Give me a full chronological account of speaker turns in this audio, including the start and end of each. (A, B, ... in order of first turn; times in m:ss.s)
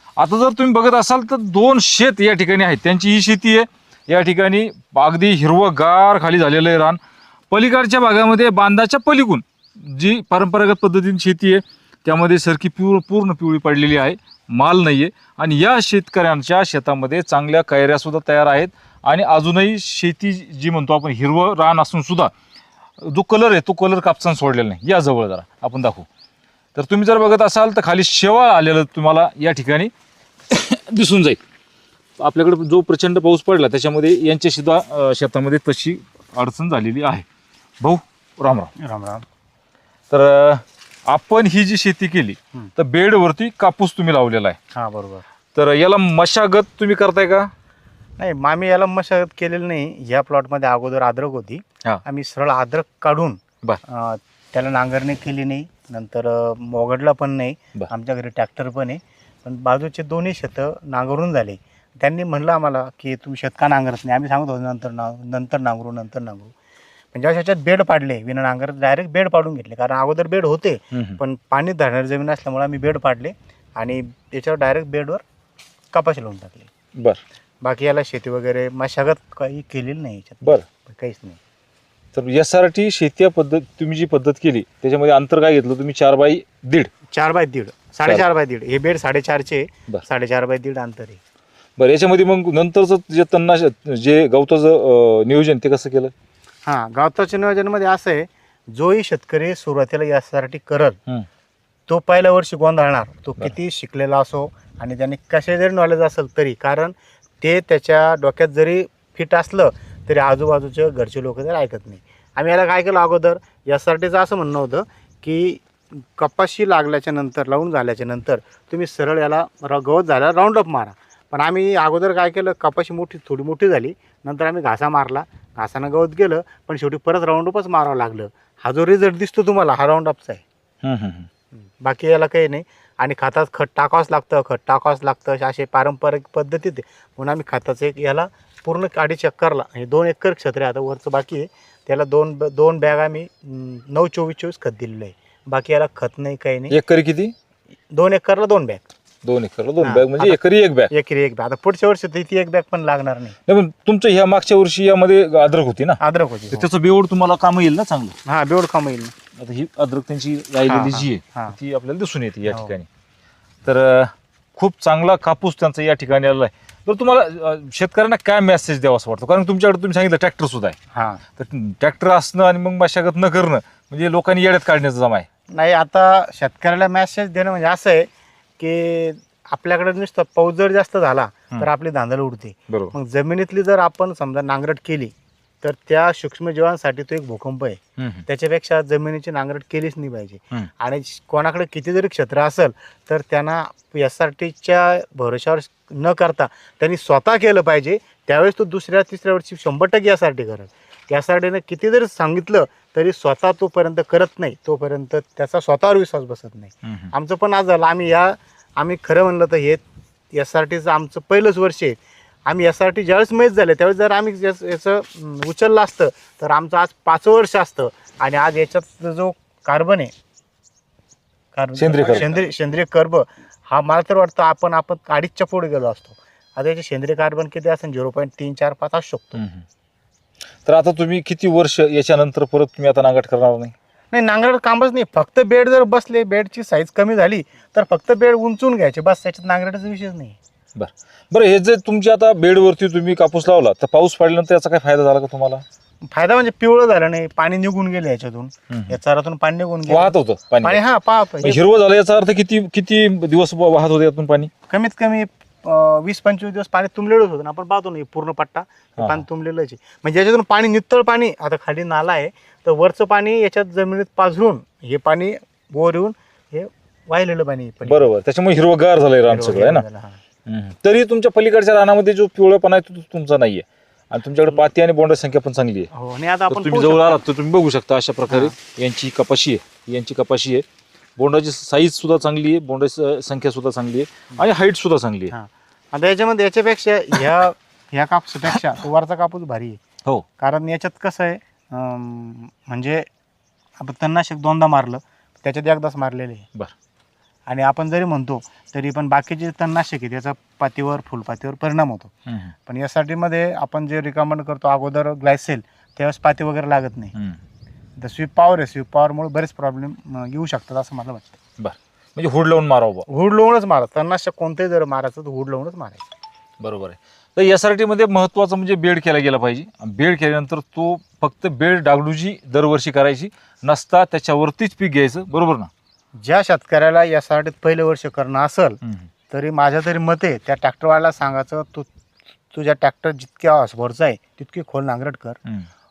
0:00.2-0:22.3 A
0:23.0-0:26.1 A
0:26.7-0:29.9 A
0:30.5-0:31.4 A
0:32.2-0:37.2 A
0:37.8-0:38.7 A
0:38.8-0:39.2 B
0:40.1-0:44.6 A
0:44.7-0:45.2 B
0:45.5-0:47.5 A
0:48.2-1:06.5 B
1:07.1-1:15.2 B
1:10.9-1:11.2 A
1:15.9-1:16.7 B
1:17.6-1:21.4 B
1:22.1-1:26.9 A
1:27.1-1:31.2 B
1:31.8-1:36.1 A
1:36.6-1:41.0 B
1:41.9-2:10.4 B
2:10.8-2:11.3 A
2:11.8-2:26.8 B
2:26.7-2:27.3 A
2:27.9-2:28.8 B
2:29.2-2:30.9 A
2:29.8-2:30.4 B
2:30.9-2:33.4 B
2:33.4-2:36.0 A
2:36.0-2:36.7 B
2:36.5-2:38.2 A
2:38.2-2:39.1 B
2:39.4-2:42.9 A
2:40.7-2:41.6 B
2:42.5-2:42.7 B
2:43.6-2:50.8 A
2:50.9-2:51.2 B
2:51.4-2:55.3 A
2:55.5-3:40.1 B
3:02.7-3:02.9 A
3:08.0-3:08.2 A
3:26.8-3:27.1 A
3:41.5-3:49.4 B
3:41.8-3:42.4 A
3:49.3-3:49.6 A
3:50.6-3:53.7 A
3:54.1-4:00.4 B
4:00.8-4:05.6 A
4:06.0-4:11.6 B
4:08.7-4:09.0 A
4:09.9-4:10.8 A
4:11.4-4:14.5 A
4:14.7-4:28.1 B
4:19.0-4:19.2 A
4:27.8-4:29.8 A
4:29.2-4:30.2 B
4:30.4-4:35.9 A
4:35.9-4:37.2 B
4:36.5-4:40.6 A
4:38.3-4:38.5 B
4:41.2-4:45.3 A
4:45.3-4:49.8 B
4:50.4-4:53.1 B
4:53.8-4:56.5 B
4:57.5-5:02.1 B
5:02.3-5:02.5 A
5:02.7-5:07.1 B
5:07.1-5:07.4 A
5:08.0-5:11.4 B
5:11.6-5:13.1 A
5:13.1-5:16.0 B
5:16.6-5:25.7 A
5:26.2-5:28.8 B
5:29.3-5:31.9 B
5:32.5-5:35.4 B